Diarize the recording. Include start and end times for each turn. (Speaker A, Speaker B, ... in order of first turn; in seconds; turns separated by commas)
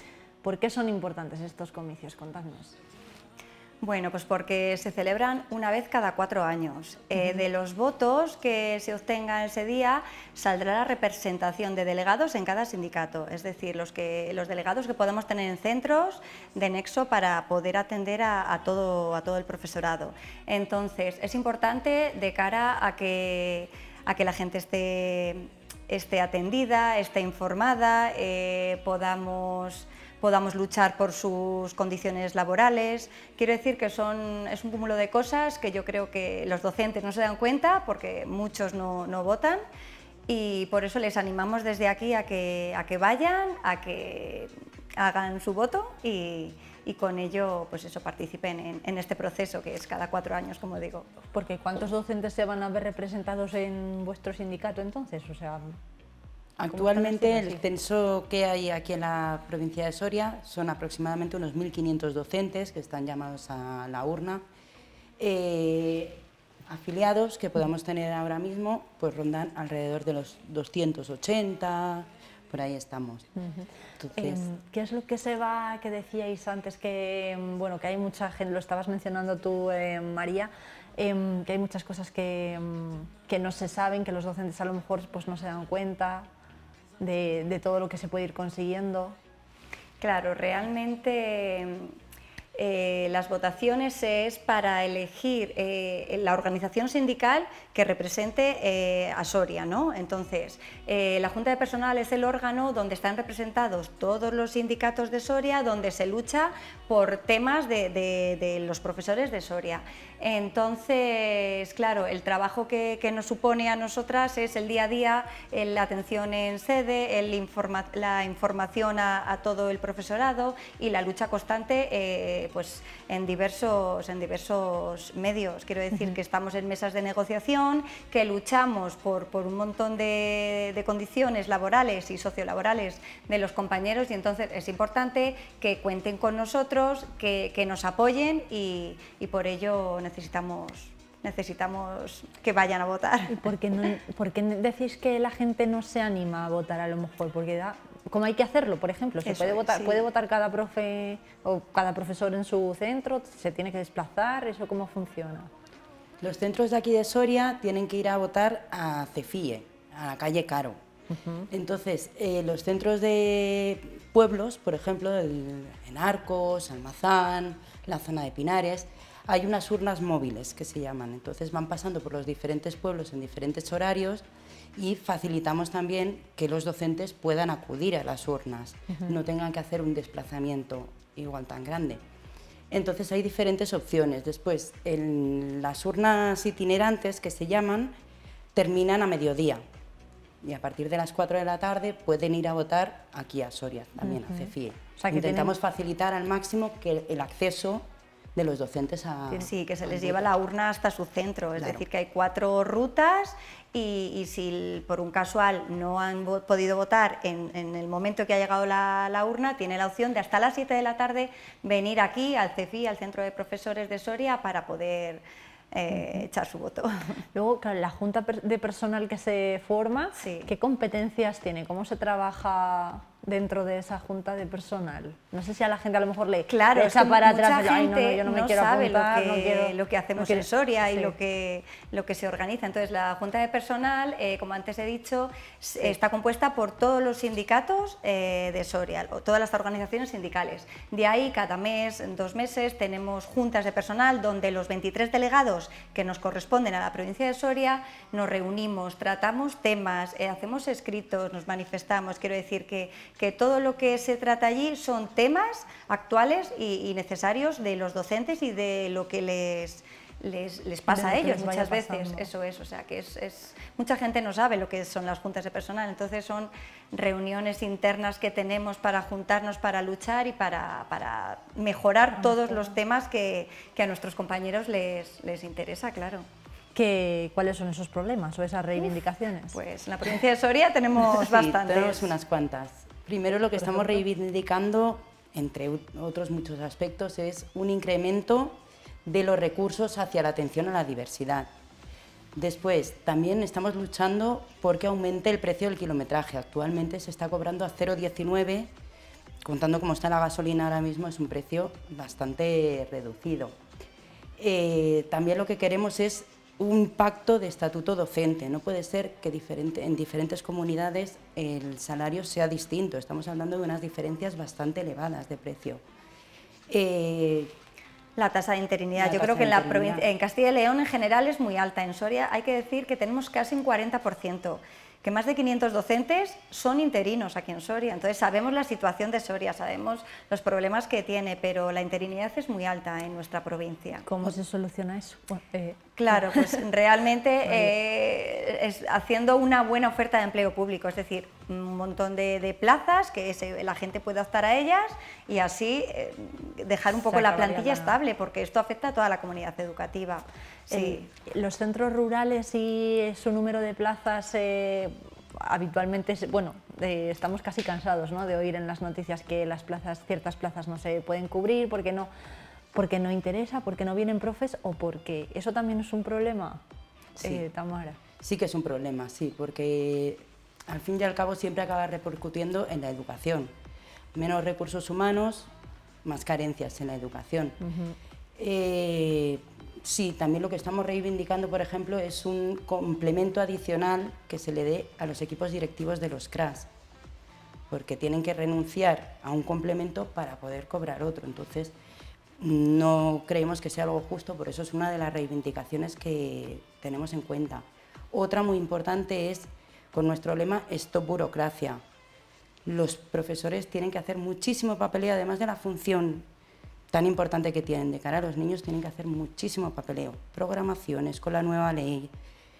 Speaker A: 0.4-2.8, Speaker B: 3.8-39.6, Speaker B: 40.3-51.1, Speaker A: 51.3-55.8, Speaker C: 56.6-64.4, Speaker A: 56.7-57.6, Speaker C: 65.2-73.3, Speaker A: 73.4-86.3, Speaker C: 74.0-74.5, Speaker A: 87.0-89.2, Speaker B: 90.0-91.9, Speaker B: 92.5-143.4, Speaker A: 143.3-155.5, Speaker B: 149.2-150.1, Speaker C: 156.2-160.8, Speaker A: 161.1-161.5, Speaker C: 161.5-174.2, Speaker C: 174.8-182.0, Speaker C: 182.7-187.9, Speaker C: 188.5-189.6, Speaker C: 190.4-200.3, Speaker A: 194.1-195.5, Speaker B: 199.4-217.2, Speaker A: 215.9-216.2, Speaker A: 217.3-231.1, Speaker B: 220.2-220.5, Speaker B: 226.5-276.2, Speaker A: 260.9-262.3, Speaker A: 272.2-272.7, Speaker A: 276.7-279.6, Speaker B: 279.5-282.1, Speaker C: 281.1-291.5, Speaker C: 292.3-298.7, Speaker C: 299.4-303.5, Speaker C: 304.4-315.8, Speaker C: 316.7-317.5, Speaker B: 318.2-334.1, Speaker C: 318.9-320.0, Speaker A: 334.0-336.6, Speaker B: 336.0-351.1, Speaker A: 337.4-337.7, Speaker A: 347.1-348.0, Speaker A: 350.7-362.1, Speaker A: 362.7-366.6, Speaker A: 367.1-368.0, Speaker C: 368.2-373.5, Speaker C: 374.1-375.5, Speaker C: 376.0-377.6, Speaker A: 377.6-377.9, Speaker C: 378.4-386.7, Speaker C: 387.7-391.7, Speaker C: 392.4-401.8, Speaker C: 402.6-406.3, Speaker C: 406.9-412.1